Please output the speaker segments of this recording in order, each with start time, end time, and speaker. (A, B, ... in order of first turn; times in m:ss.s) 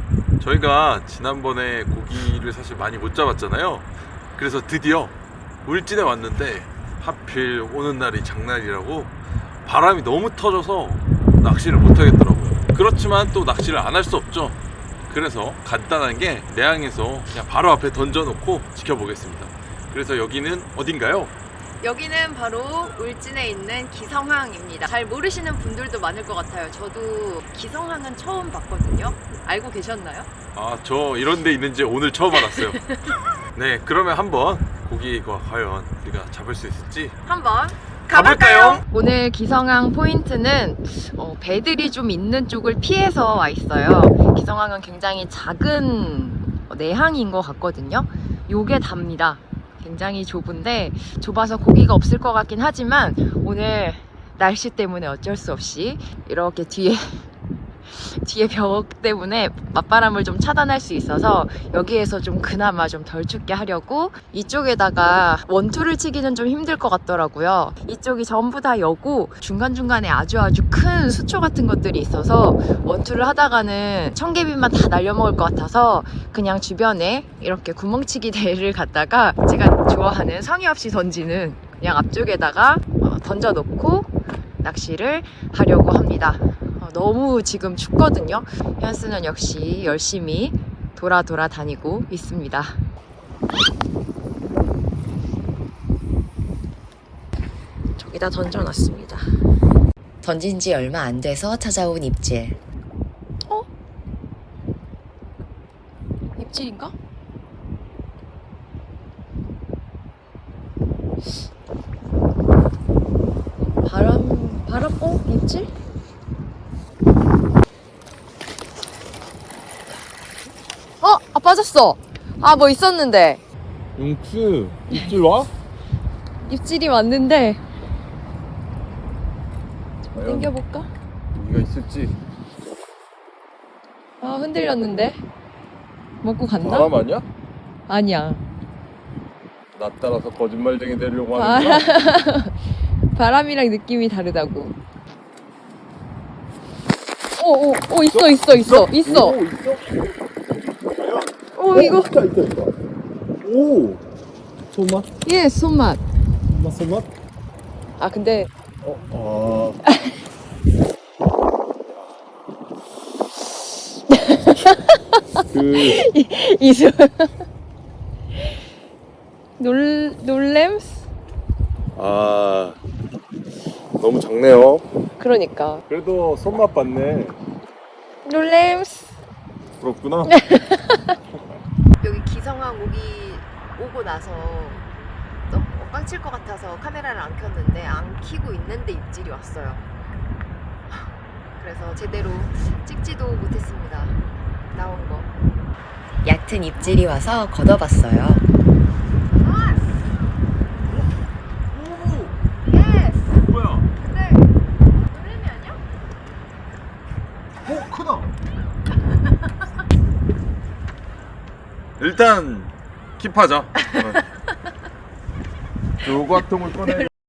0:00.4-0:03.9 A
0:04.4-0:05.1 A
0:05.6-0:14.6 A
0:15.1-0:21.3 A
0:21.8-0:30.3 B
0:30.6-0:32.8 A
0:32.3-0:33.2 B
0:33.6-0:37.2 A
0:37.2-0:57.2 B
0:38.1-0:38.8 A
0:57.9-1:32.8 B
1:38.0-1:39.3 B
1:40.2-1:42.6 C
1:46.4-1:46.9 B
1:53.8-1:55.7 B
2:01.0-2:03.4 B
2:04.0-2:05.5 A
2:06.4-2:07.6 B
2:10.1-2:10.9 B
2:10.1-2:10.5 A
2:11.4-2:12.1 A
2:14.2-2:15.2 B
2:16.2-2:16.9 B
2:16.6-2:17.2 A
2:17.9-2:18.4 B
2:19.8-2:21.9 A
2:21.3-2:22.5 B
2:23.1-2:24.8 B
2:27.4-2:29.4 B
2:28.1-2:30.1 A
2:31.0-2:32.7 A
2:31.6-2:32.1 B
2:33.4-2:34.0 A
2:34.7-2:35.1 A
2:35.2-2:36.0 B
2:36.5-2:37.1 A
2:38.0-2:38.5 B
2:38.8-2:39.8 A
2:39.8-2:40.1 B
2:44.1-2:47.4 B
2:45.5-2:46.0 A
2:49.6-2:51.0 B
2:52.0-2:52.8 A
2:54.0-2:54.9 A
2:55.2-2:55.8 B
2:55.9-2:57.4 A
2:58.2-2:59.1 B
2:59.8-3:00.3 A
3:00.3-3:01.1 B
3:02.0-3:04.8 B
3:05.5-3:09.8 B
3:11.6-3:14.2 B
3:14.7-3:15.3 B
3:16.2-3:18.4 C
3:19.4-3:19.8 B
3:21.7-3:22.4 A
3:22.6-3:23.4 B
3:23.4-3:23.9 A
3:24.0-3:24.5 B
3:25.1-3:25.8 B
3:27.6-3:28.3 A
3:32.0-3:34.2 A
3:33.8-3:34.2 B
3:36.0-3:37.1 A